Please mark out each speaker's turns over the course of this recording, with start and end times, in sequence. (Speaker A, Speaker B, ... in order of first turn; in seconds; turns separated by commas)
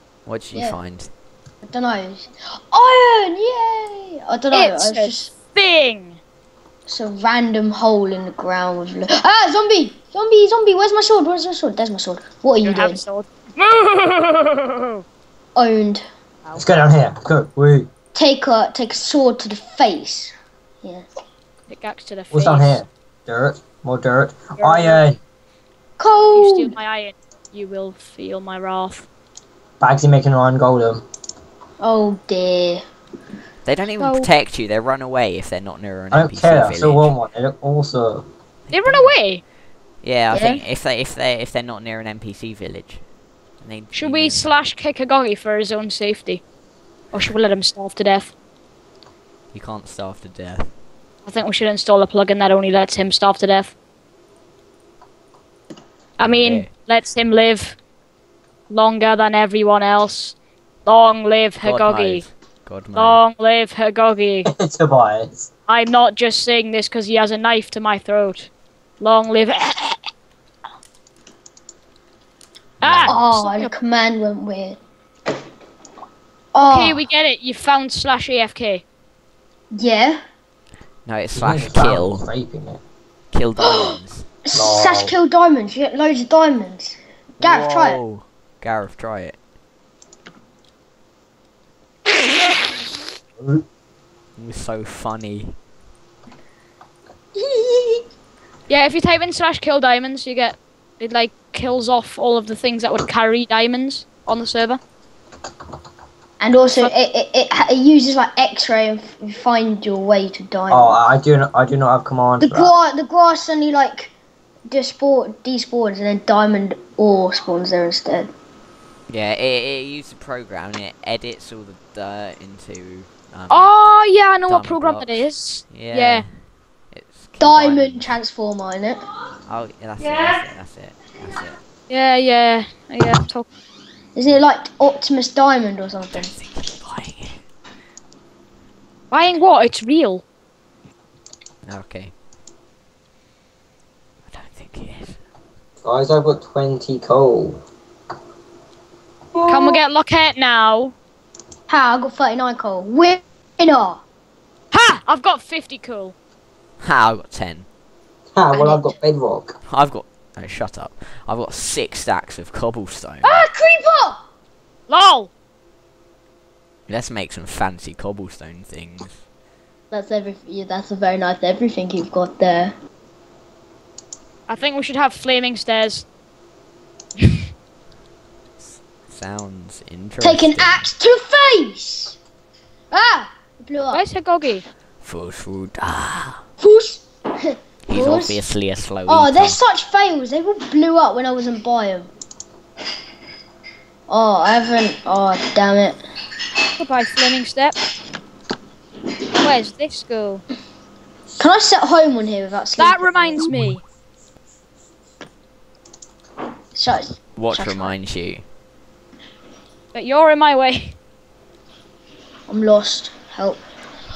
Speaker A: 0.2-1.1, Speaker B: 0.5-0.8, Speaker B: 1.6-5.3, Speaker C: 4.5-6.2, Speaker B: 6.9-13.0, Speaker C: 12.6-15.0, Speaker B: 15.6-16.0, Speaker D: 16.6-17.9, Speaker B: 18.1-20.3, Speaker C: 21.7-22.8, Speaker D: 22.3-25.2, Speaker C: 24.6-25.0, Speaker B: 26.0-26.7, Speaker C: 26.3-29.1, Speaker D: 29.8-31.0, Speaker B: 31.8-32.8, Speaker A: 33.6-37.1, Speaker C: 34.0-34.3, Speaker D: 36.1-38.2, Speaker A: 38.7-39.1, Speaker C: 38.7-39.4, Speaker A: 40.0-43.0, Speaker B: 40.3-40.6, Speaker A: 43.6-44.5, Speaker C: 43.9-46.4, Speaker C: 47.1-48.3, Speaker A: 49.5-50.7, Speaker C: 51.2-53.7, Speaker C: 56.2-57.8, Speaker A: 56.2-56.7, Speaker C: 58.7-62.3, Speaker A: 61.6-63.2, Speaker C: 62.9-64.5, Speaker D: 64.5-65.5, Speaker C: 65.7-70.0, Speaker C: 72.8-73.7, Speaker A: 72.8-73.1, Speaker B: 73.1-74.8, Speaker B: 76.5-77.0, Speaker C: 76.7-78.8, Speaker B: 79.7-80.2, Speaker A: 81.0-82.3, Speaker D: 81.3-82.8, Speaker A: 83.3-84.3, Speaker B: 83.6-83.9, Speaker B: 84.5-88.0, Speaker D: 84.5-85.1, Speaker A: 87.4-89.3, Speaker D: 93.4-93.6, Speaker A: 94.4-95.6, Speaker B: 97.3-98.0, Speaker C: 98.7-104.8, Speaker B: 106.4-111.0, Speaker D: 110.7-112.7, Speaker B: 112.4-114.1, Speaker B: 114.7-118.3, Speaker A: 119.1-123.8, Speaker C: 123.5-126.2, Speaker A: 124.5-126.3, Speaker A: 126.9-128.2, Speaker B: 127.4-129.0, Speaker A: 129.4-131.6, Speaker C: 131.9-133.5, Speaker B: 134.1-136.3, Speaker A: 136.1-137.4, Speaker C: 139.1-140.2, Speaker A: 141.6-142.1, Speaker A: 144.3-145.2, Speaker D: 145.8-147.6, Speaker D: 149.3-149.7, Speaker C: 149.5-150.9, Speaker B: 151.7-154.0, Speaker C: 154.7-156.1, Speaker A: 156.8-157.7, Speaker D: 158.3-159.6, Speaker B: 158.5-158.9, Speaker A: 159.7-163.4, Speaker B: 163.2-164.2, Speaker C: 164.9-165.3, Speaker A: 166.9-169.2, Speaker B: 169.9-172.7, Speaker C: 174.5-176.1, Speaker A: 178.6-180.8, Speaker B: 180.2-182.2, Speaker B: 182.9-184.0, Speaker C: 183.9-184.6, Speaker A: 185.0-186.4, Speaker B: 186.6-188.4, Speaker A: 187.9-189.6, Speaker B: 189.1-192.1, Speaker B: 194.1-196.0, Speaker C: 196.8-197.8, Speaker C: 199.4-200.4, Speaker B: 201.4-203.5, Speaker C: 202.8-203.8, Speaker B: 206.7-207.9, Speaker A: 207.3-208.4, Speaker C: 209.9-210.9, Speaker B: 212.5-213.6